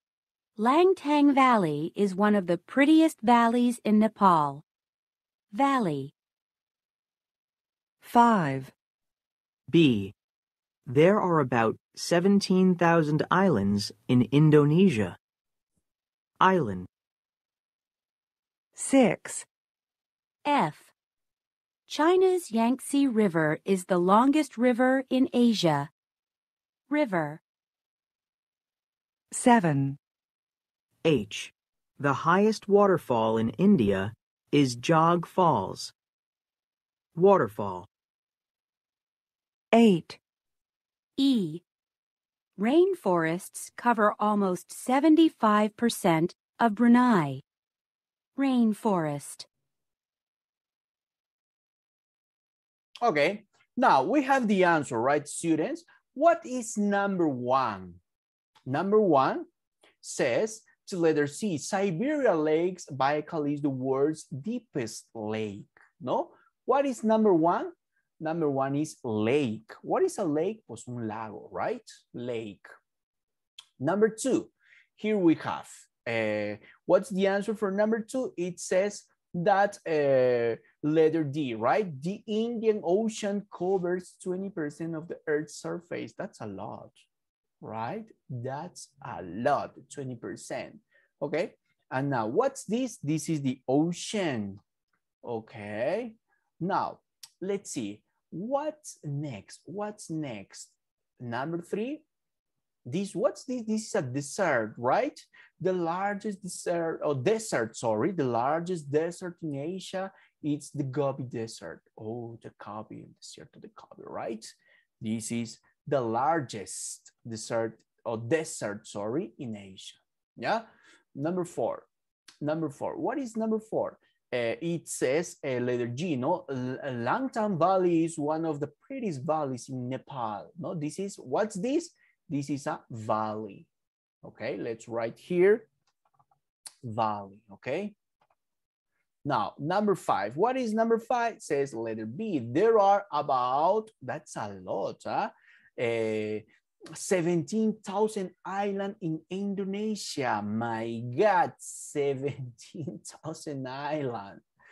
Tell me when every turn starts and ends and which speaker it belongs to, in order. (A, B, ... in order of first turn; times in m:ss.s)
0:00.6-0:04.6 A
0:05.5-0:06.1 A
0:08.0-0:08.7 B
0:09.7-0:10.1 C
0:10.9-0:15.2 C
0:16.4-0:16.9 C
0:18.8-0:19.5 B
0:20.4-0:20.9 A
0:21.9-0:25.9 A
0:26.9-0:27.4 A
0:29.3-0:30.0 B
0:31.0-0:35.9 C
0:37.1-0:37.9 C
0:39.7-0:40.2 B
0:41.2-0:41.6 A
0:42.6-0:47.4 A
0:48.4-0:49.5 A
0:53.0-0:58.0 D
0:58.6-0:59.5 D
1:00.0-1:12.7 D
1:13.8-1:27.0 D
1:27.6-1:34.6 D
1:35.2-1:42.0 D
1:42.9-2:01.9 D
2:02.4-2:13.7 D
2:14.2-2:15.7 D
2:16.8-2:18.0 D
2:19.2-2:34.4 D